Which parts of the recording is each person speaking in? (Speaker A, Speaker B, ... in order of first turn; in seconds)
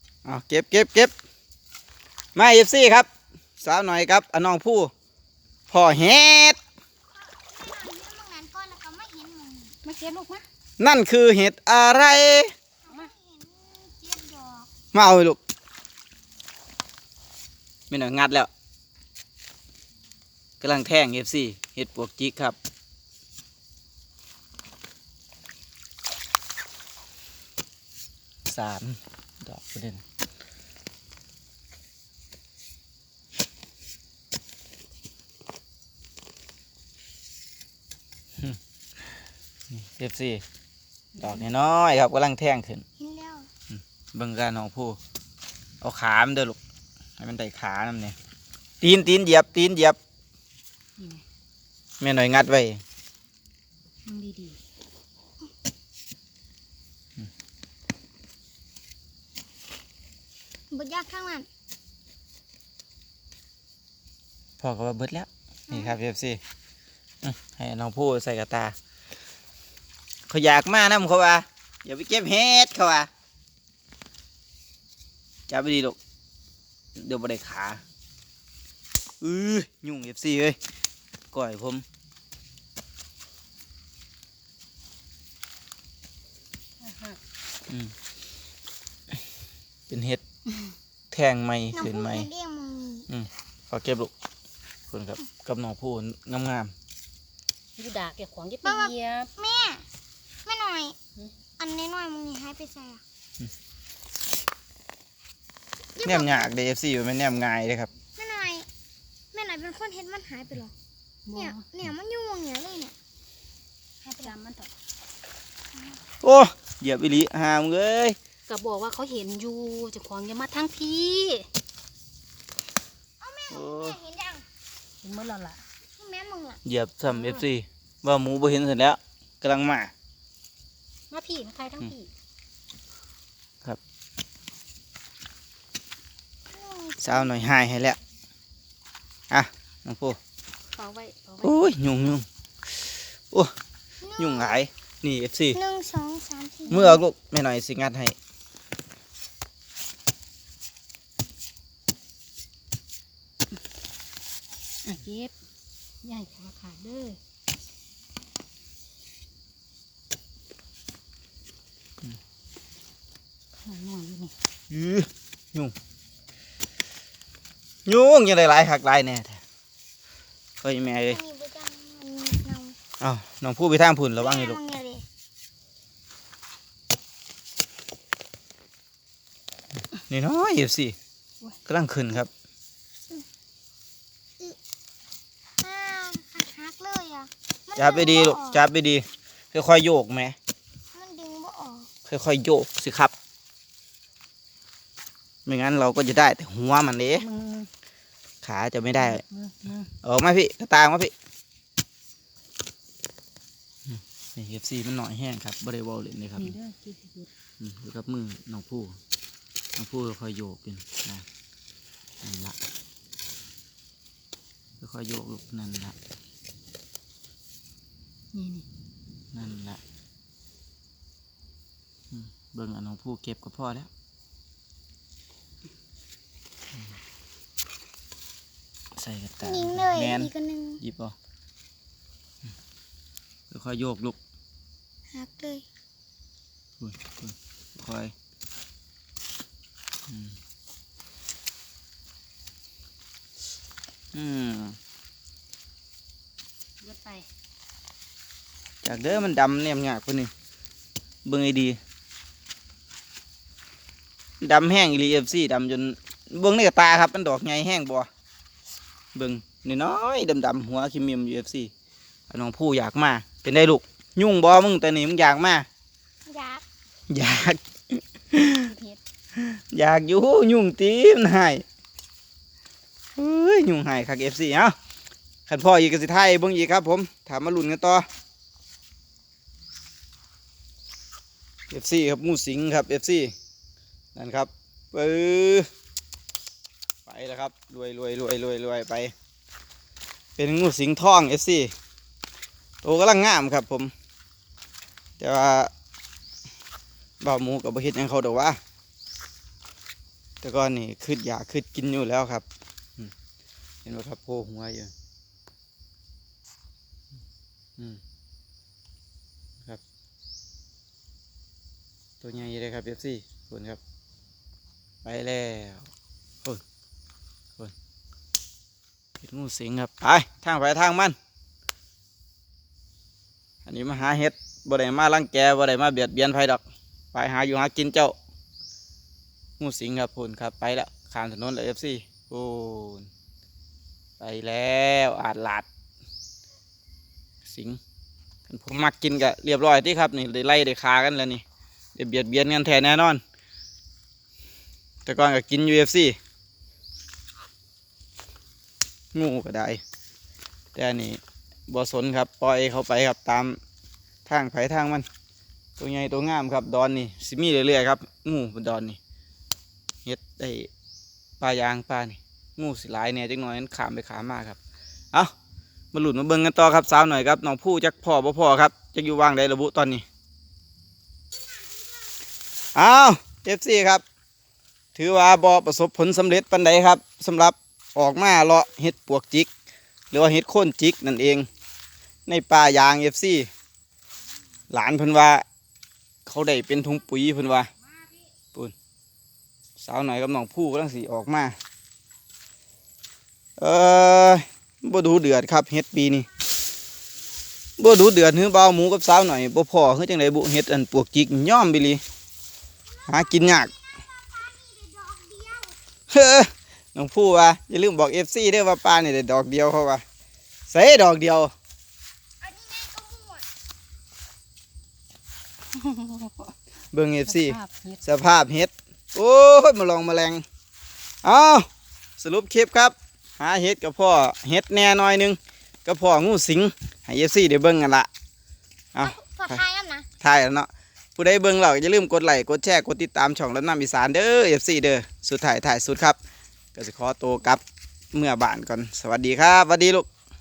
Speaker A: 0.2-1.1, 2.3-3.1, 3.6-4.9, 5.7-6.6, 10.8-12.5, 14.9-15.4, 17.9-18.5, 20.6-22.6, 28.4-30.0, 39.7-40.4, 41.2-42.8, 43.7-45.0, 45.8-46.6, 47.2-48.1, 48.8-50.0, 52.0-52.8, 64.6-66.4, 67.2-68.7, 70.3-73.1, 75.5-76.0, 77.0-77.8, 79.2-80.6, 81.3-81.8, 89.9-90.2, 91.1-92.3, 93.1-94.1, 94.9-96.7, 106.0-107.9, 116.2-118.2, 123.5-124.0, 126.6-129.9, 137.0-138.0, 139.3-140.2, 141.4-142.2, 144.2-145.6, 146.7-148.1, 164.7-165.7, 167.8-169.4, 170.6-171.2, 173.0-174.6, 180.1-180.9, 181.7-182.3, 187.8-190.3, 192.0-193.1, 195.4-197.2, 198.4-199.2, 200.0-201.1, 203.8-206.6, 207.6-209.0, 209.8-211.2, 212.2-212.6, 214.8-215.9, 219.3-219.8, 222.1-223.9, 228.9-231.1, 233.5-234.2, 236.8-238.1, 240.1-240.3, 244.1-244.8, 248.8-250.3, 251.2-251.8, 254.4-258.1, 259.1-261.7, 262.3-265.6, 267.1-268.7, 269.4-271.6, 273.2-274.7, 275.5-278.1, 281.7-283.3, 284.1-285.7, 287.1-289.1, 290.4-291.7, 292.8-293.9, 295.2-295.7, 297.2-298.6, 300.4-302.4, 303.8-304.9, 312.2-313.8, 315.0-315.9, 319.2-321.1, 323.6-328.1, 329.6-333.1, 334.2-335.6, 337.4-337.8, 338.5-341.4, 341.9-343.2, 345.1-346.2, 349.1-349.8, 350.7-353.6, 354.2-355.1, 355.8-359.0, 360.0-360.7, 361.4-364.6, 365.9-370.0, 372.7-374.0, 374.9-379.5, 380.1-381.5, 382.3-383.5, 384.7-385.4, 386.2-387.7, 389.8-391.5, 393.6-396.3, 397.8-402.0, 403.1-403.7, 406.1-410.0, 410.7-411.5, 416.9-420.4, 421.2-421.6, 422.2-428.1, 428.9-429.6, 430.2-436.2, 436.7-437.6, 438.1-440.1
Speaker B: 7.2-9.8, 12.8-14.7, 43.0-43.5, 60.7-61.5, 65.7-66.0, 91.7-93.1, 98.6-99.8, 100.4-101.0, 101.6-103.0, 106.0-106.5, 108.2-108.7, 109.3-110.7, 111.3-112.9, 114.0-114.3, 123.2-124.4, 126.0-126.6, 136.5-137.3, 144.0-144.6, 145.5-147.0, 171.1-172.8, 174.2-175.0, 185.6-188.6, 190.9-191.9, 229.4-230.8, 235.1-235.6, 266.2-266.6, 402.9-405.8, 412.4-413.4, 429.0-430.1
Speaker C: 9.8-10.4, 41.1-41.4, 51.0-51.2, 54.0-54.6, 86.8-87.2, 97.8-99.3, 111.2-111.7, 114.2-114.7, 118.5-121.5, 125.0-125.6, 127.0-127.4, 131.1-132.1, 140.7-141.6, 154.8-155.3, 156.0-157.2, 163.6-164.3, 197.2-197.7, 198.9-199.9, 206.4-207.3, 218.3-218.6, 246.8-247.3, 268.5-269.0, 415.7-416.5, 417.3-418.0